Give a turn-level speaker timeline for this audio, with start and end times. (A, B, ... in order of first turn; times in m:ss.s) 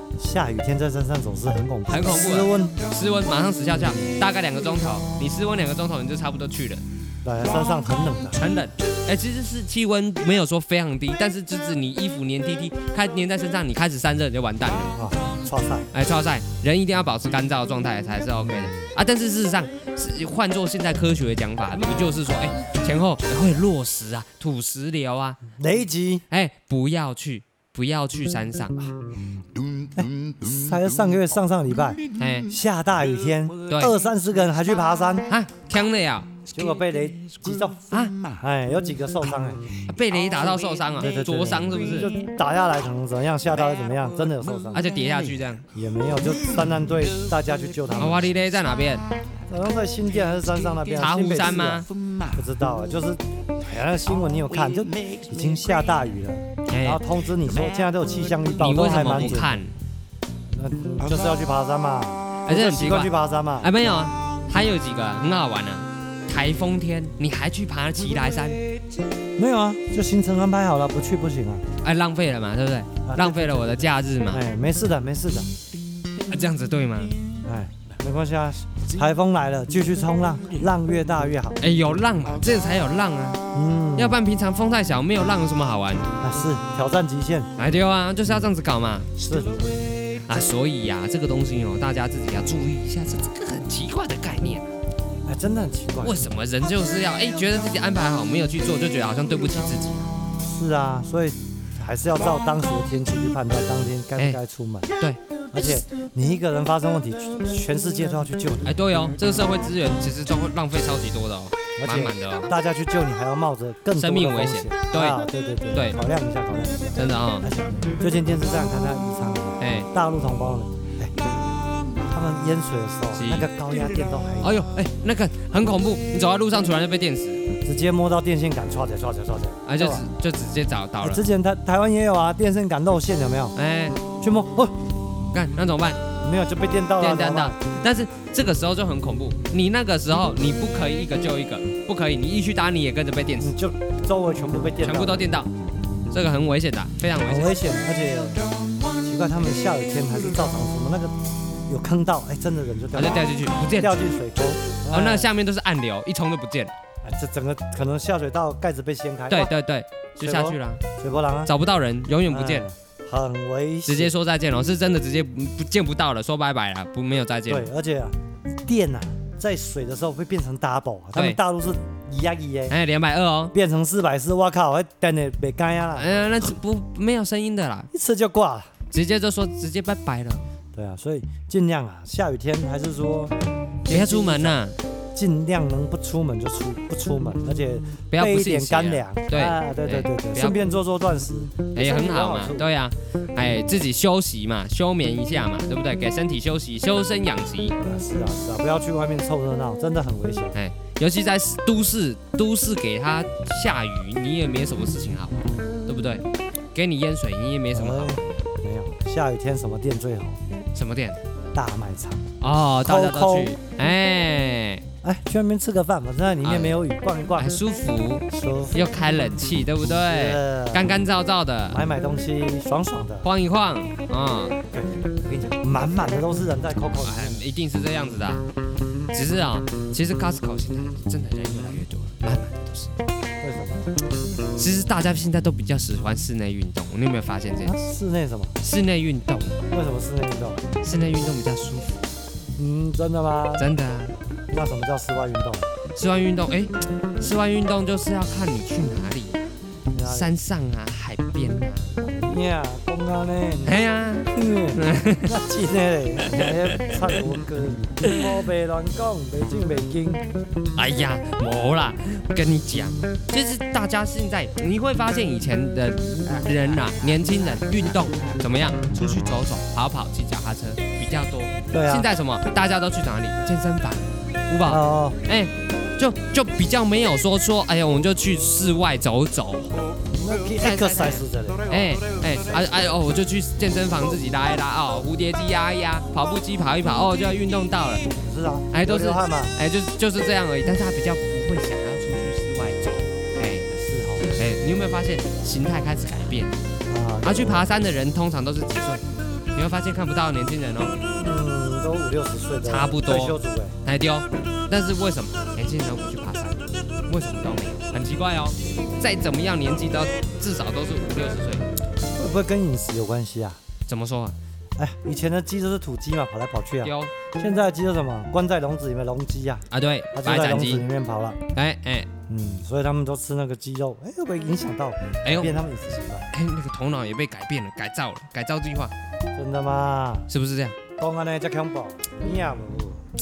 0:00.2-0:02.8 A
0:01.9-0:06.8 B
0:07.2-0:08.4 A
0:08.3-0:15.0 B
0:14.9-0:15.9 A
0:15.9-0:25.4 B
0:25.5-0:26.2 A
0:26.3-0:28.9 B
0:29.7-0:30.9 C
0:29.9-0:35.3 A
0:32.2-0:32.5 B
0:33.7-0:33.9 B
0:34.5-0:35.1 C
0:35.3-0:36.3 B
0:36.5-0:38.4 C
0:36.5-0:37.8 A
0:38.4-0:39.7 A
0:39.9-0:42.1 B
0:40.9-0:44.8 A
0:44.6-0:45.2 C
0:44.7-0:45.6 B
0:45.7-0:48.3 A
0:48.0-0:49.0 B
0:49.5-0:59.6 A
0:51.0-0:51.9 B
0:51.9-0:52.4 C
0:54.3-0:55.9 C
0:56.7-0:57.0 B
0:57.6-0:58.3 C
0:58.6-0:59.7 B
1:00.5-1:03.7 A
1:02.4-1:08.6 B
1:09.4-1:11.6 A
1:11.8-1:14.4 B
1:13.0-1:15.5 A
1:16.3-1:17.1 B
1:17.4-1:21.6 A
1:21.6-1:23.4 B
1:23.5-1:24.2 A
1:24.0-1:26.1 B
1:26.2-1:27.5 A
1:27.6-1:29.1 B
1:29.2-1:29.7 A
1:30.3-1:34.7 B
1:35.2-1:36.2 A
1:36.0-1:40.1 B
1:40.4-1:45.0 A
1:45.5-1:48.7 A
1:48.6-1:52.5 B
1:51.8-2:01.1 A
1:54.0-1:55.2 B
1:57.0-1:57.5 B
1:59.6-1:59.9 B
2:02.0-2:04.6 A
2:03.1-2:03.5 B
2:04.4-2:07.4 B
2:07.6-2:10.1 A
2:09.6-2:11.2 B
2:11.0-2:13.5 A
2:13.6-2:14.0 B
2:14.2-2:14.8 A
2:15.3-2:16.0 B
2:16.2-2:17.6 A
2:17.0-2:23.5 B
2:23.4-2:25.3 A
2:24.8-2:25.5 B
2:26.1-2:27.6 B
2:27.2-2:28.4 A
2:29.0-2:31.1 A
2:31.7-2:35.3 A
2:32.9-2:34.0 B
2:34.9-2:36.7 B
2:37.0-2:39.5 A
2:39.3-2:40.8 B
2:40.2-2:41.5 A
2:41.4-2:42.6 B
2:42.3-2:44.1 A
2:43.8-2:47.7 B
2:47.5-2:52.8 A
2:52.7-2:53.5 B
2:53.5-2:56.2 A
2:56.0-2:57.9 B
2:57.9-2:58.7 A
2:58.9-3:00.5 B
3:00.7-3:03.3 A
3:03.8-3:12.7 A
3:03.9-3:04.8 B
3:08.1-3:10.6 B
3:11.8-3:17.8 B
3:17.8-3:20.5 A
3:20.5-3:28.4 B
3:27.7-3:30.4 A
3:30.7-3:31.2 B
3:31.5-3:32.3 A
3:32.4-3:34.8 B
3:32.8-3:33.6 A
3:35.0-3:37.6 A
3:36.4-3:36.8 B
3:37.4-3:41.8 B
3:38.3-3:38.8 A
3:40.1-3:41.0 A
3:41.7-3:43.3 A
3:43.2-3:44.6 B
3:44.6-3:47.4 A
3:47.0-3:48.5 B
3:49.1-3:52.9 B
3:53.4-3:53.9 A
3:54.6-3:57.8 B
3:57.6-3:58.6 A
3:58.6-3:59.6 B
3:59.7-4:00.6 A
4:00.8-4:02.0 B
4:02.6-4:03.7 A
4:03.6-4:04.2 B
4:04.5-4:05.7 A
4:05.9-4:11.9 B
4:09.9-4:10.3 A
4:12.0-4:13.8 A
4:13.6-4:15.3 B
4:14.3-4:20.2 A
4:16.4-4:17.1 B
4:20.8-4:39.7 B
4:31.7-4:32.1 A
4:34.6-4:35.2 A
4:40.1-4:42.0 A
4:40.6-4:48.1 B
4:48.2-4:49.5 A
4:48.7-4:53.7 B
4:53.7-4:54.4 A
4:54.2-4:56.5 B
4:56.9-4:57.7 A
4:57.2-5:01.0 B
5:01.1-5:03.8 A
5:02.6-5:11.7 B
5:12.2-5:13.6 A
5:13.9-5:14.4 B
5:14.8-5:21.4 A
5:16.8-5:17.1 B
5:19.7-5:20.8 B
5:21.5-5:22.1 B
5:22.3-5:26.3 A
5:25.2-5:25.5 B
5:26.3-5:28.9 B
5:29.3-5:30.3 A
5:30.3-5:30.8 B
5:31.0-5:33.0 A